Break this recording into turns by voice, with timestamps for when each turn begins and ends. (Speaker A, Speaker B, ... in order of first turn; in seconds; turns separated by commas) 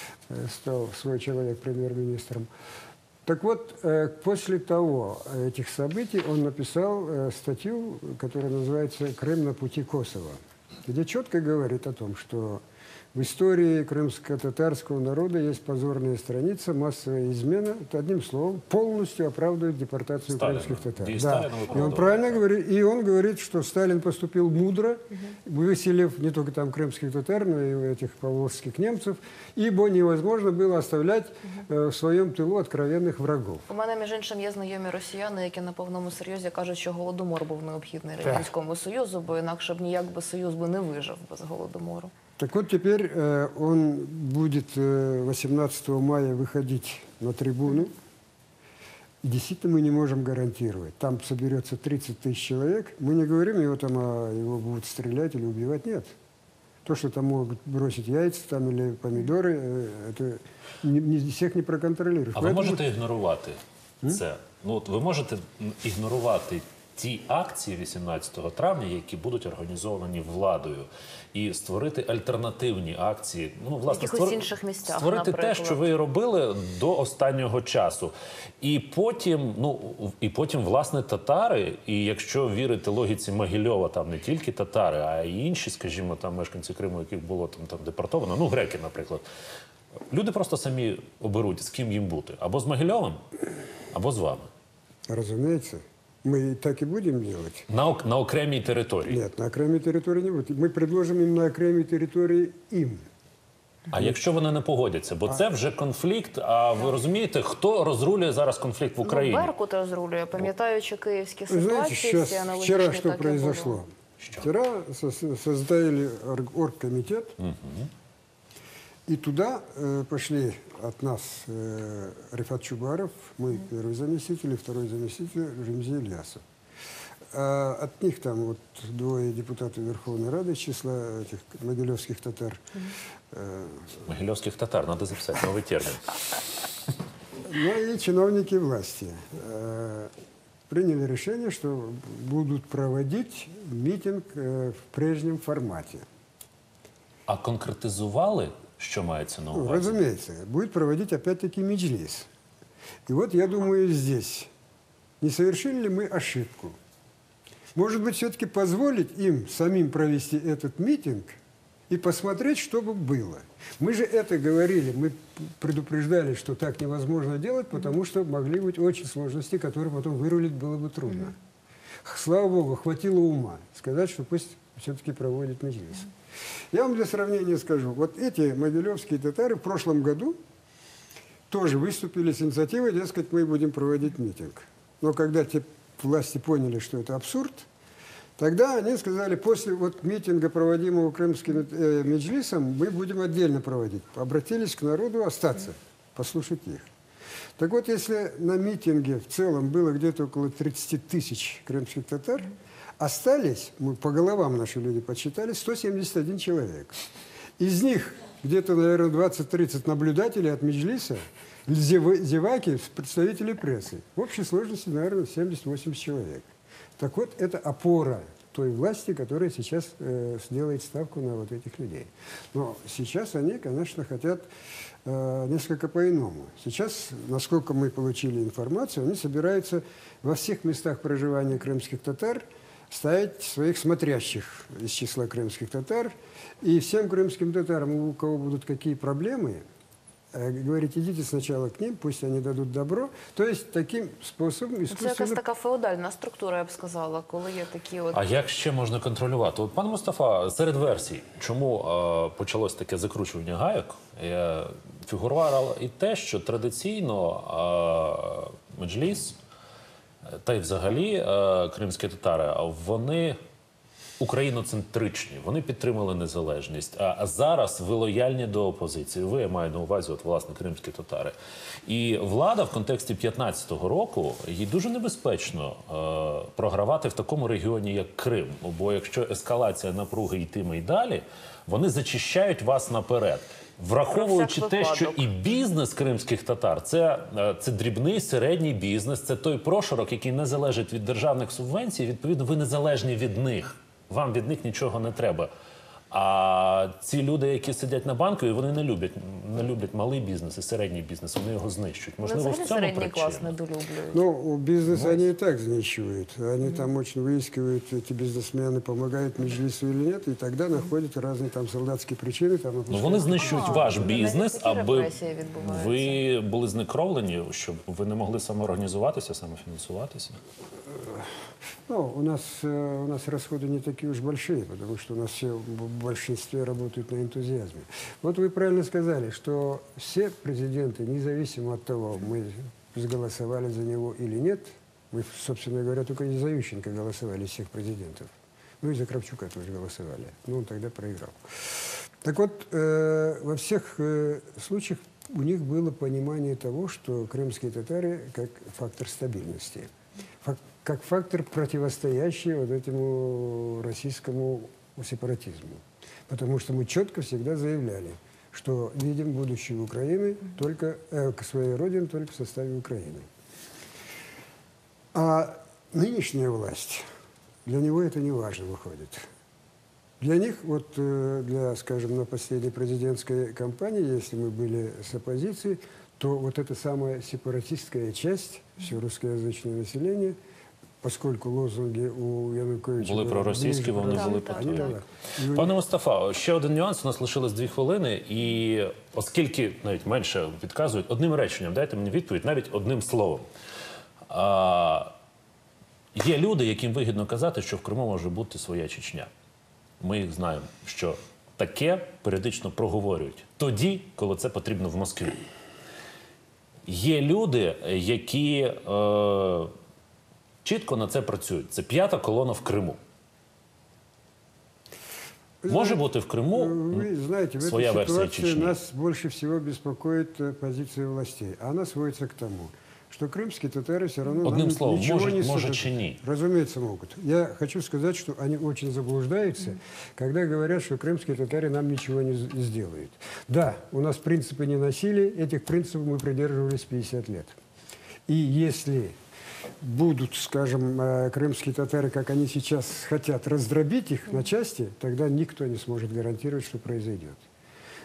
Speaker A: 0.3-2.5, Speaker A: 3.2-12.6, Speaker A: 13.1-33.6, Speaker B: 20.3-22.4, Speaker C: 33.7-42.1, Speaker A: 38.2-38.5, Speaker A: 42.4-48.0, Speaker A: 49.2-56.1, Speaker A: 56.9-62.8, Speaker B: 62.4-89.2, Speaker C: 73.9-75.8, Speaker B: 90.1-93.2, Speaker B: 93.9-94.5, Speaker A: 95.1-97.7, Speaker B: 97.7-99.2, Speaker A: 99.1-103.0, Speaker B: 103.9-109.5, Speaker C: 109.0-113.8, Speaker A: 111.5-117.4, Speaker B: 114.2-114.5, Speaker B: 117.4-117.9, Speaker A: 119.1-126.4, Speaker A: 127.3-132.6, Speaker A: 133.3-134.0, Speaker B: 134.1-136.2, Speaker A: 137.4-140.1, Speaker A: 140.7-146.1, Speaker B: 147.3-150.0, Speaker A: 149.5-152.3, Speaker A: 153.1-154.5, Speaker A: 155.2-156.8, Speaker A: 157.8-161.4, Speaker A: 161.9-171.4, Speaker A: 172.0-176.1, Speaker A: 176.7-180.4, Speaker A: 181.5-187.7, Speaker A: 188.4-196.9, Speaker A: 197.6-207.0, Speaker A: 207.6-224.5, Speaker A: 225.1-239.6, Speaker A: 240.3-245.4, Speaker C: 244.9-248.2, Speaker B: 248.1-259.4, Speaker B: 260.3-263.4, Speaker B: 264.2-271.4, Speaker B: 271.9-295.5, Speaker C: 284.1-285.3, Speaker B: 296.1-303.6, Speaker C: 302.2-304.2, Speaker A: 304.1-314.1, Speaker B: 312.9-320.4, Speaker C: 313.3-316.2, Speaker A: 320.9-321.3, Speaker A: 321.9-349.9, Speaker A: 350.4-363.3, Speaker A: 365.1-367.1, Speaker A: 367.6-369.3, Speaker A: 370.2-380.4, Speaker A: 381.0-385.8, Speaker B: 383.0-385.0, Speaker C: 384.2-384.9, Speaker B: 385.5-393.5, Speaker B: 394.3-395.1, Speaker B: 396.1-399.3, Speaker B: 400.0-405.4, Speaker B: 406.9-409.7, Speaker B: 410.6-413.0, Speaker A: 415.6-437.6, Speaker B: 415.7-417.1, Speaker B: 417.6-418.8, Speaker B: 424.4-426.2, Speaker A: 438.3-439.2, Speaker A: 439.8-447.4